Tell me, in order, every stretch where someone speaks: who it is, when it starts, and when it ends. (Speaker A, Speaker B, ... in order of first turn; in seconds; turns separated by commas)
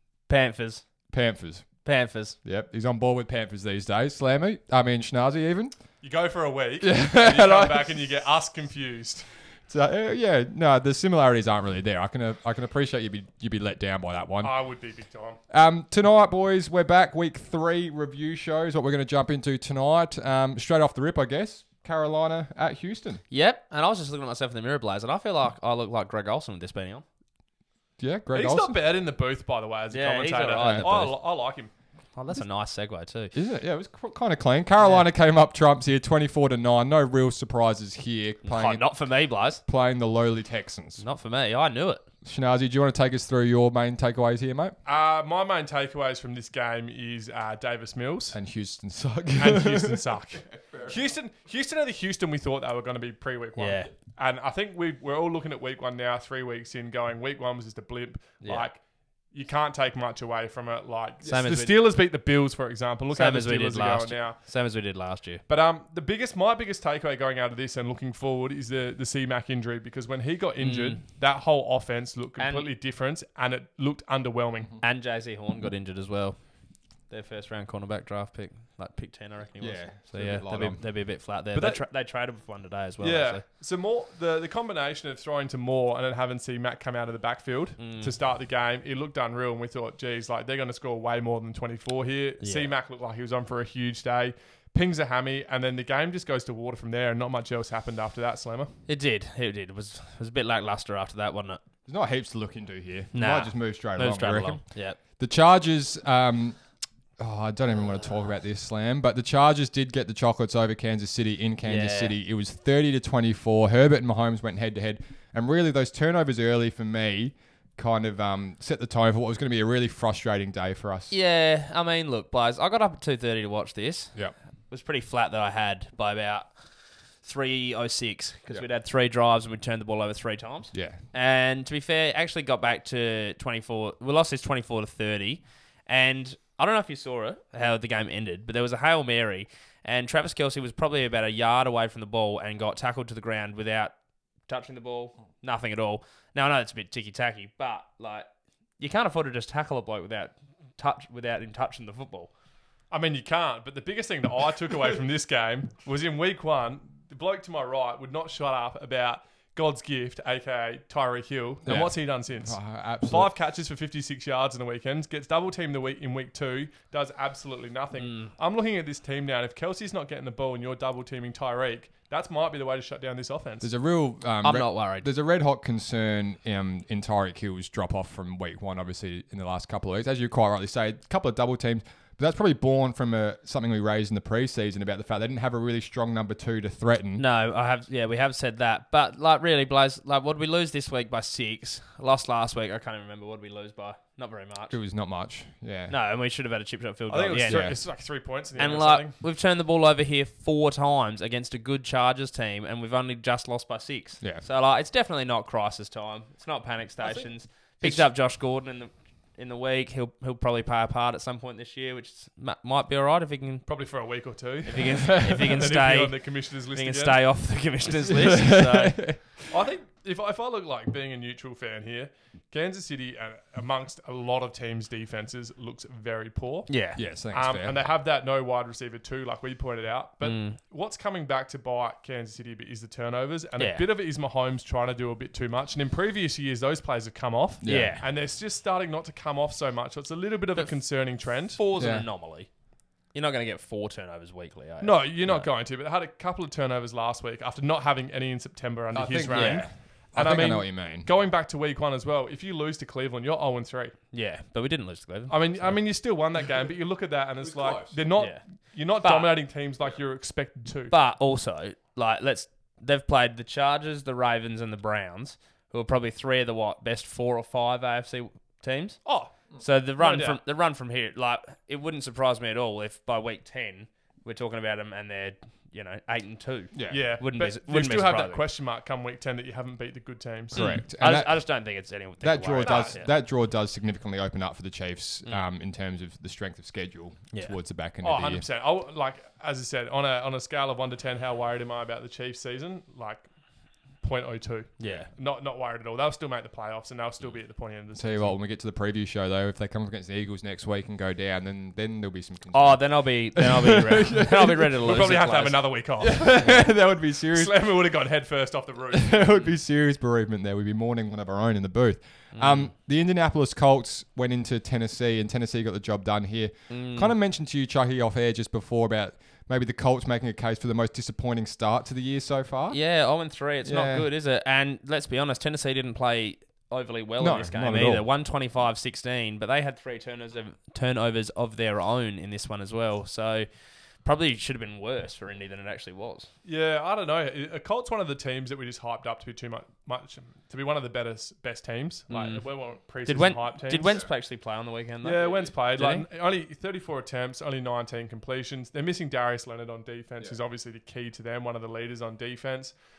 Speaker A: 0.3-1.1, Speaker B: 1.1-6.0, Speaker A: 1.8-2.4, Speaker C: 6.0-9.4, Speaker B: 6.8-8.1, Speaker B: 9.6-14.8, Speaker C: 14.4-15.4, Speaker B: 15.5-23.2, Speaker A: 23.3-27.0, Speaker B: 28.0-28.8, Speaker C: 28.3-32.2, Speaker A: 29.9-31.2, Speaker B: 30.6-30.9, Speaker A: 32.1-33.3, Speaker B: 33.3-41.0, Speaker A: 38.4-39.6, Speaker A: 41.0-42.0, Speaker B: 42.2-44.7, Speaker C: 44.8-48.4, Speaker B: 48.3-51.0, Speaker C: 49.4-64.6, Speaker A: 53.6-53.9, Speaker A: 58.4-58.7, Speaker A: 61.2-61.9, Speaker A: 63.1-65.4, Speaker C: 65.5-74.7, Speaker A: 70.6-71.0, Speaker A: 72.4-72.7, Speaker A: 74.8-83.4, Speaker B: 79.6-80.8, Speaker C: 81.5-82.0, Speaker C: 83.0-98.8, Speaker A: 87.8-88.1, Speaker A: 92.4-92.7, Speaker A: 98.9-101.6, Speaker B: 101.8-121.1, Speaker A: 103.1-105.0, Speaker A: 111.6-112.1, Speaker A: 121.1-152.3, Speaker B: 130.7-131.0, Speaker C: 152.9-173.7, Speaker B: 161.6-163.3, Speaker A: 168.0-168.3, Speaker B: 173.6-187.2, Speaker A: 174.4-175.1, Speaker A: 187.2-194.8, Speaker B: 194.7-195.9, Speaker A: 195.9-213.7, Speaker C: 197.1-199.1, Speaker B: 197.5-197.8, Speaker C: 207.0-207.3, Speaker B: 207.8-208.1, Speaker C: 213.6-217.7, Speaker A: 214.7-219.1, Speaker B: 214.8-215.5, Speaker B: 218.1-219.5, Speaker C: 219.5-241.6, Speaker A: 226.7-227.0, Speaker B: 226.9-227.8, Speaker A: 230.2-230.6, Speaker A: 233.6-233.8, Speaker B: 237.6-238.0, Speaker A: 237.6-238.1, Speaker A: 240.5-245.5, Speaker B: 241.8-242.1, Speaker C: 244.8-254.0, Speaker B: 248.9-251.1, Speaker A: 249.3-249.7, Speaker A: 254.1-255.9, Speaker C: 255.3-260.9, Speaker B: 257.4-258.0, Speaker A: 258.1-259.4, Speaker A: 260.9-278.4, Speaker C: 269.0-270.4, Speaker B: 276.7-277.0, Speaker C: 276.9-280.7, Speaker A: 280.5-283.1, Speaker B: 280.5-288.4, Speaker C: 282.6-283.0, Speaker A: 287.3-287.6, Speaker C: 288.0-298.4, Speaker A: 294.8-295.1, Speaker B: 297.9-304.8, Speaker A: 302.5-305.7, Speaker C: 304.8-306.7, Speaker B: 306.0-307.8, Speaker C: 307.3-309.5, Speaker B: 308.9-324.1, Speaker A: 312.3-312.7, Speaker A: 316.7-317.1, Speaker A: 322.7-336.3, Speaker B: 327.2-328.1, Speaker C: 336.4-344.0, Speaker A: 342.1-346.1, Speaker B: 343.7-344.1, Speaker C: 345.0-352.8